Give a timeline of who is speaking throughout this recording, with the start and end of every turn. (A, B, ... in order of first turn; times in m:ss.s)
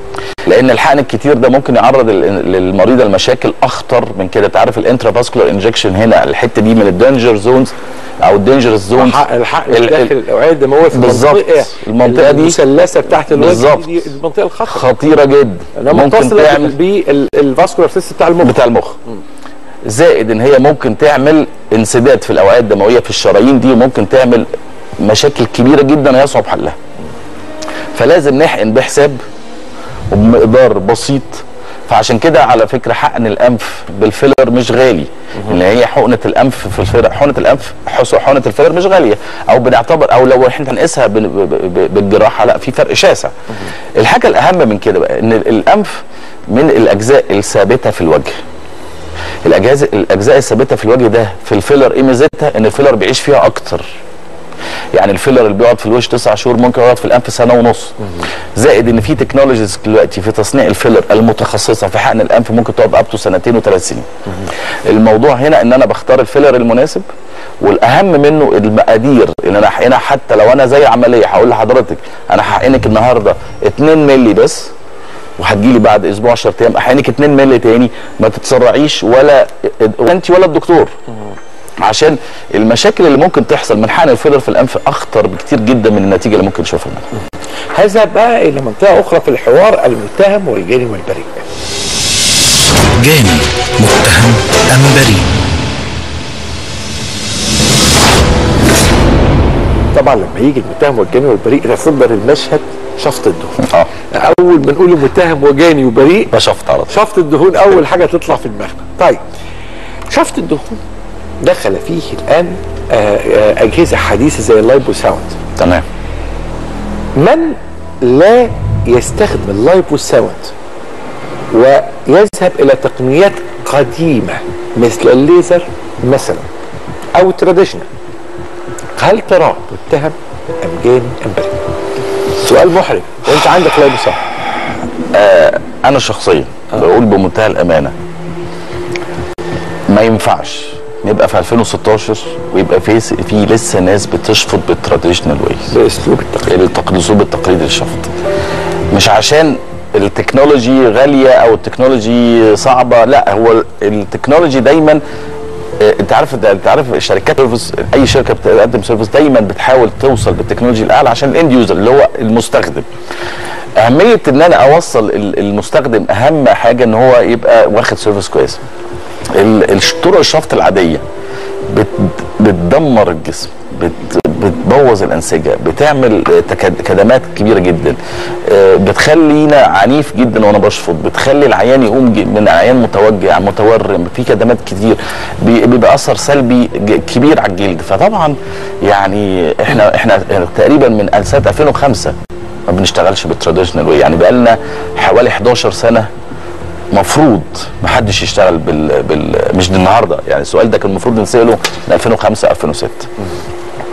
0:00.4-0:10.1 A
0:08.9-0:14.9 B
0:10.9-0:12.6 A
0:13.3-0:14.0 A
0:14.7-0:16.7 A
0:15.8-0:18.6 B
0:18.4-0:19.0 A
0:19.8-0:24.5 A
0:25.0-0:26.8 A
0:27.9-0:29.2 A
0:30.1-0:43.3 A
0:43.9-0:48.4 A
0:49.4-0:53.9 A
0:54.9-0:58.0 A
0:58.5-1:04.1 A
1:04.8-1:07.0 A
1:07.6-1:14.7 A
1:15.4-1:20.9 A
1:21.8-1:27.0 A
1:27.7-1:31.4 B
1:33.0-1:35.3 C
1:39.9-1:46.4 B
1:43.6-1:43.9 A
1:46.3-1:46.9 A
1:46.9-1:49.2 B
1:50.1-1:50.8 B
1:51.4-1:55.4 B
1:55.6-1:55.8 A
1:57.2-2:00.5 B
2:01.5-2:06.5 B
2:07.1-2:07.9 B
2:09.0-2:11.6 B
2:12.4-2:14.2 B
2:15.1-2:17.9 A
2:19.9-2:25.7 A
2:25.7-2:26.5 B
2:26.5-2:28.1 A
2:28.9-2:35.0 A
2:35.8-2:42.9 A
2:43.8-2:48.6 A
2:49.3-2:51.0 A
2:51.7-3:12.2 A
3:12.7-3:16.1 A
3:16.9-3:23.1 A